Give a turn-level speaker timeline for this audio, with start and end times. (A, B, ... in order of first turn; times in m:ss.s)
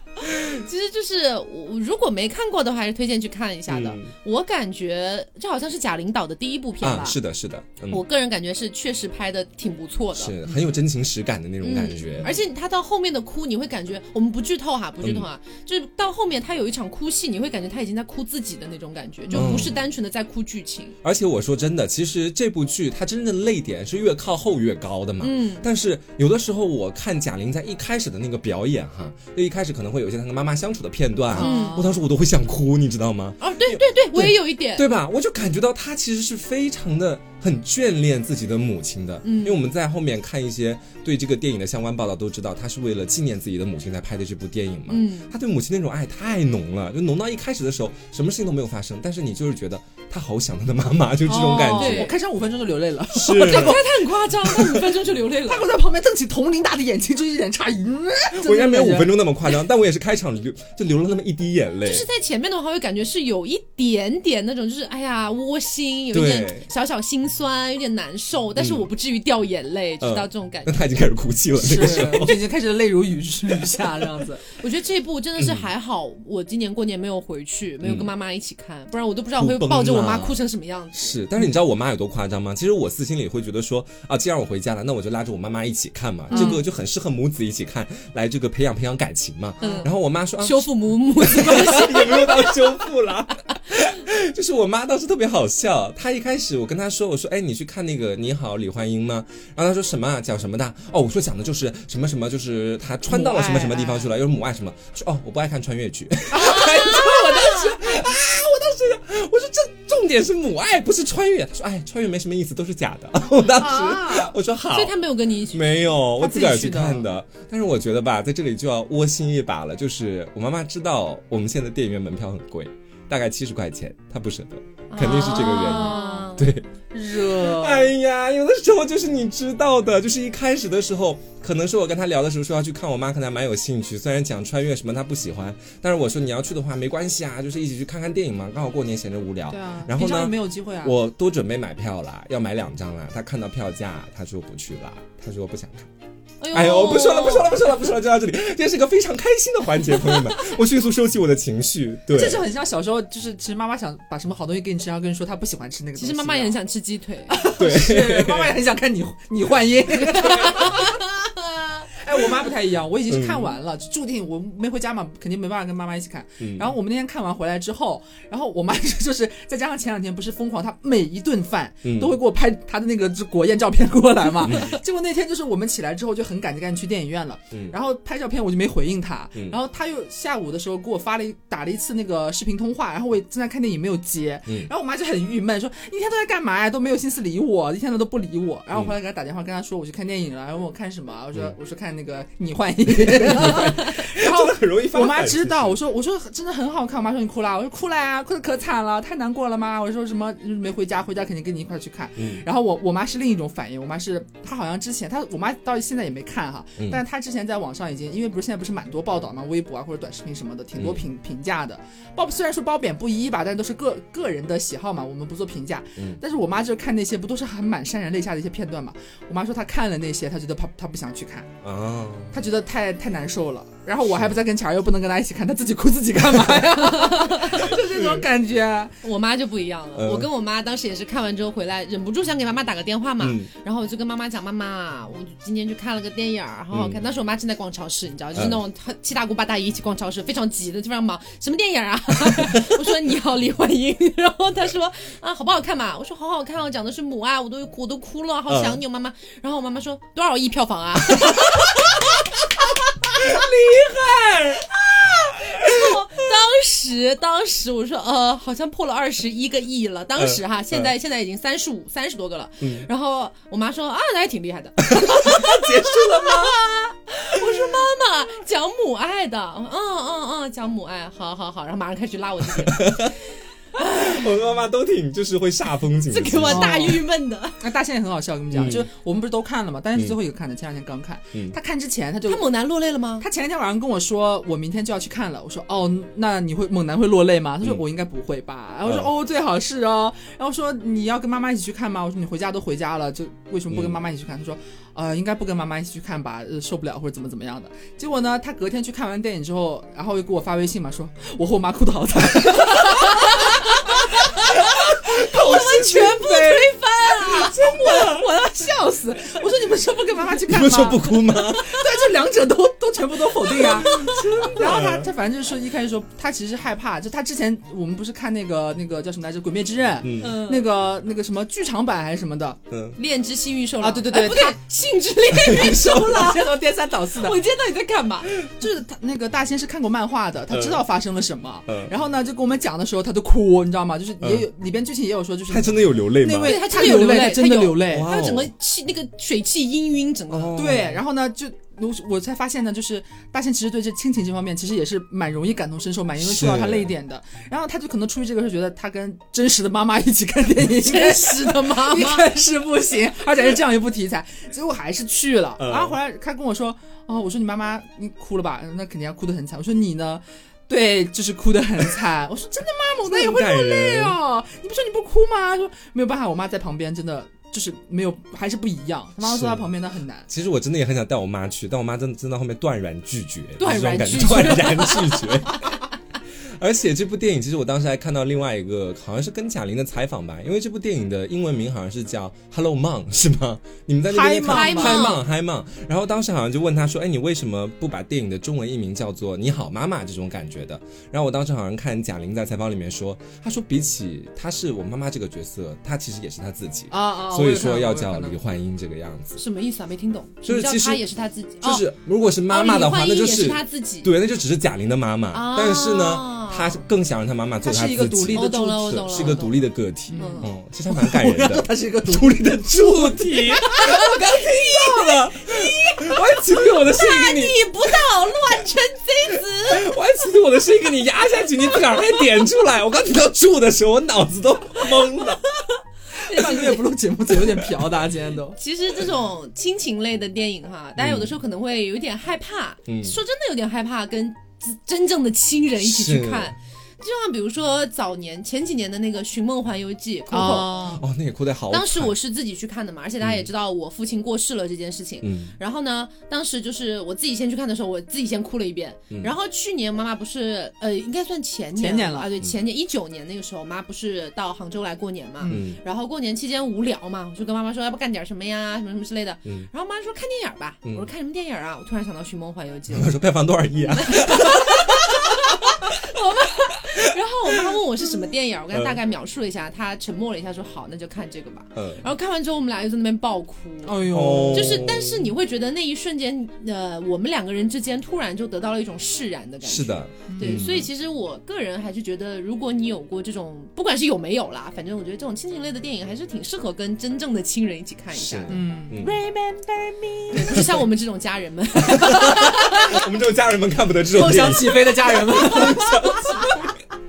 0:00.4-0:07.2 A
0:03.7-0:04.1 B
0:06.8-0:08.0 B
0:07.9-0:10.3 A
0:10.2-0:12.4 B
0:11.6-0:21.0 A
0:19.3-0:19.7 C
0:19.3-0:19.8 B
0:21.0-0:52.1 B
0:25.2-0:25.6 A
0:31.3-0:32.0 C
0:31.4-0:31.9 A
0:33.4-0:34.8 A
0:39.2-0:39.6 A
0:44.9-0:45.3 A
0:51.2-0:53.8 C
0:51.7-0:52.1 A
0:53.1-0:53.8 B
0:53.2-0:55.7 A
0:54.9-0:59.1 C
0:58.4-1:02.0 B
1:01.8-1:10.9 A
1:06.1-1:06.7 B
1:08.6-1:08.9 B
1:10.0-1:12.4 B
1:11.6-1:14.4 C
1:14.5-1:21.2 A
1:15.4-1:15.7 B
1:17.8-1:18.1 B
1:19.4-1:20.4 B
1:20.9-1:54.9 B
1:26.3-1:26.6 A
1:26.3-1:26.6 C
1:29.6-1:29.9 A
1:30.4-1:32.7 A
1:43.1-1:44.1 C
1:46.3-1:48.0 C
1:46.3-1:47.7 A
1:53.4-1:54.3 C
1:54.7-1:56.0 A
1:55.5-2:25.9 B
1:56.2-1:57.0 C
2:04.9-2:06.5 A
2:05.3-2:06.3 C
2:06.9-2:07.9 C
2:19.5-2:21.0 C
2:26.4-2:27.6 A
2:26.5-2:32.4 B
2:32.1-2:36.6 C
2:36.0-2:37.4 A
2:37.3-2:41.0 C
2:37.6-2:38.6 B
2:40.3-2:41.2 A
2:41.9-3:41.5 C
2:43.1-2:43.5 B
2:46.4-2:46.7 B
2:51.8-2:52.2 B
2:54.4-2:54.8 B
3:12.9-3:15.8 B
3:22.2-3:22.4 B
3:30.8-3:31.0 B
3:41.6-3:42.4 B
3:42.3-3:49.0 C
3:46.7-3:47.7 A
3:47.7-3:48.2 B
3:49.0-4:12.5 A
3:49.9-3:50.3 B
3:53.2-3:53.5 B
3:56.7-3:57.0 B
3:58.4-3:58.6 B
4:02.3-4:02.8 B
4:08.5-4:08.8 B
4:11.2-4:11.8 B
4:13.0-4:13.5 A
4:13.1-4:14.7 B
4:14.2-4:33.2 A
4:15.5-4:16.1 B
4:20.2-4:20.9 B
4:22.6-4:22.9 B
4:24.8-4:26.6 B
4:32.6-4:33.1 B
4:33.8-4:34.3 A
4:33.8-4:37.0 B
4:36.1-4:37.6 A
4:36.4-4:37.0 C
4:37.6-4:42.5 C
4:38.5-4:38.9 B
4:42.2-4:43.2 A
4:43.2-5:22.6 C
4:48.8-4:49.1 B
4:53.7-4:54.0 B
5:02.8-5:07.6 A
5:04.7-5:06.1 B
5:07.3-5:08.3 B
5:10.5-5:11.8 B
5:13.6-5:15.1 B
5:13.8-5:14.4 A
5:20.0-5:20.4 B
5:20.2-5:20.6 A
5:22.7-5:23.0 B
5:23.0-5:26.5 A
5:23.8-5:24.6 C
5:25.3-5:26.2 B
5:25.7-5:27.4 C
5:27.1-5:28.3 A
5:28.4-5:38.1 C
5:30.5-5:30.8 B
5:31.7-5:31.9 B
5:34.2-5:34.4 B
5:35.5-5:36.6 B
5:36.4-5:40.6 A
5:37.8-5:38.5 B
5:40.3-5:41.0 B
5:40.5-6:10.3 C
5:46.2-5:46.9 B
5:50.8-5:52.3 A
5:55.6-5:56.0 B
6:03.0-6:04.2 B
6:09.2-6:09.7 B
6:10.3-6:15.8 B
6:13.6-6:15.4 A
6:16.6-6:39.4 B
6:24.1-6:25.1 C
6:24.5-6:25.2 A
6:36.9-6:38.4 C
6:39.4-6:41.8 A
6:40.4-6:41.0 B
6:41.6-6:57.6 B
6:42.5-6:44.1 A
6:45.3-6:46.8 A
6:47.6-6:49.5 C
6:48.3-6:49.6 A
6:50.1-6:54.1 C
6:50.2-6:50.5 A
6:53.8-6:54.0 A
6:54.6-6:55.1 C
6:55.4-6:59.9 A
6:59.7-7:05.4 B
7:06.2-7:06.8 A
7:06.2-7:08.6 C
7:08.6-7:21.0 A
7:11.0-7:11.4 B
7:12.9-7:13.2 B
7:15.8-7:16.5 B
7:20.3-7:21.0 C
7:20.9-7:22.1 B
7:21.7-7:43.2 A
7:23.2-7:23.4 B
7:25.2-7:25.5 B
7:31.8-7:32.3 C
7:35.5-7:35.8 B
7:40.8-7:41.1 B
7:42.9-7:45.3 B
7:43.9-8:08.6 A
7:48.7-7:49.0 B
7:51.7-7:52.0 B
7:53.8-7:54.8 C
7:54.1-7:55.3 B
7:59.6-8:00.9 B
8:00.3-8:00.6 C
8:08.2-8:09.2 B
8:08.5-8:10.4 C
8:10.3-8:13.0 A
8:10.4-8:10.8 B
8:11.8-8:16.7 B
8:14.1-8:16.5 C